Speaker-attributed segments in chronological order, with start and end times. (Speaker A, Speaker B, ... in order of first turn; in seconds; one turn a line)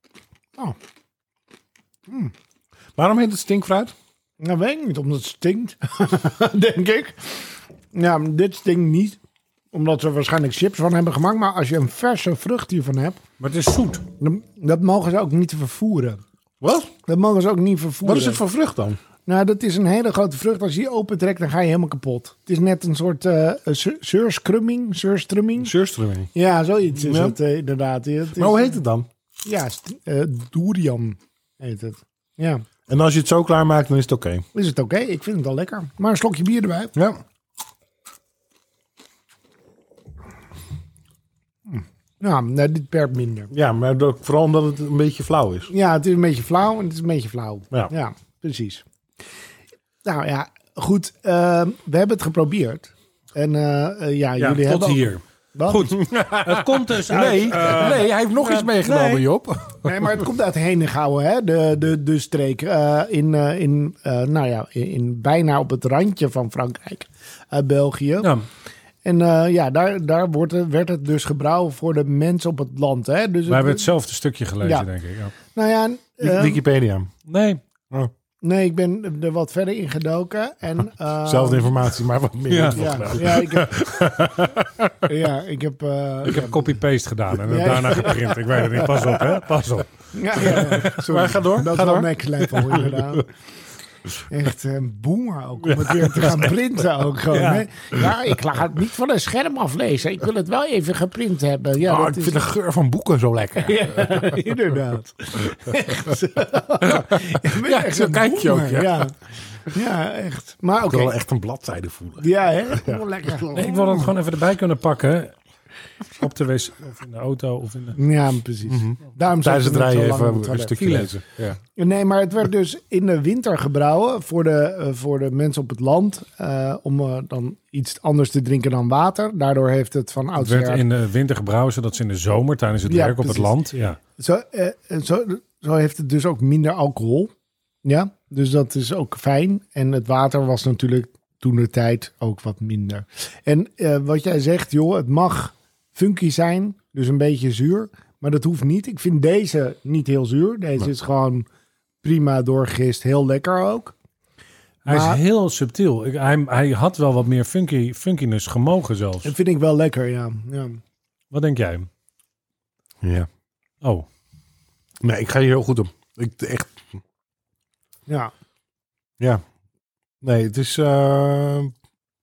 Speaker A: 2.1-2.3
Speaker B: 3.0-3.9
Speaker A: 4.4-9.2
Speaker A: 9.7-13.2
Speaker C: 13.4-14.1
Speaker A: 14.2-16.2
Speaker B: 16.6-16.9
Speaker A: 17.1-18.4
Speaker B: 18.0-19.0
Speaker A: 19.2-25.7
Speaker B: 25.6-26.3
Speaker A: 26.3-28.8
Speaker B: 26.9-27.4
Speaker B: 28.4-29.1
Speaker A: 29.4-32.6
Speaker B: 32.9-34.4
Speaker A: 34.5-36.9
Speaker A: 41.7-43.5
Speaker B: 43.5-45.7
Speaker A: 45.7-48.8
Speaker A: 50.0-55.9
Speaker C: 54.4-59.3
Speaker B: 55.9-60.1
Speaker A: 59.8-68.3
Speaker A: 69.0-73.9
Speaker C: 73.5-75.3
Speaker A: 74.6-74.9
Speaker A: 75.5-76.6
Speaker B: 76.2-77.1
Speaker C: 77.3-77.6
Speaker A: 78.4-81.8
Speaker B: 81.2-85.0
Speaker C: 82.5-83.2
Speaker A: 82.7-83.9
Speaker A: 85.0-86.8
Speaker C: 86.2-90.8
Speaker A: 87.4-89.1
Speaker A: 90.1-93.3
Speaker B: 90.4-93.0
Speaker A: 94.3-102.4
Speaker B: 95.9-96.5
Speaker C: 97.3-97.6
Speaker B: 101.8-104.4
Speaker A: 103.6-111.1
Speaker B: 106.8-109.1
Speaker B: 110.8-113.0
Speaker A: 112.2-114.1
Speaker C: 113.5-115.3
Speaker C: 116.1-118.0
Speaker A: 118.0-121.0
Speaker B: 118.7-121.6
Speaker C: 120.8-121.1
Speaker A: 121.7-130.8
Speaker C: 130.4-134.0
Speaker A: 132.8-133.6
Speaker A: 134.2-137.3
Speaker A: 137.8-151.5
Speaker A: 152.0-153.9
Speaker C: 154.8-159.3
Speaker A: 154.9-155.2
Speaker A: 159.2-160.8
Speaker C: 161.3-161.9
Speaker B: 163.0-163.3
Speaker B: 165.0-166.8
Speaker A: 168.1-168.3
Speaker B: 170.2-171.7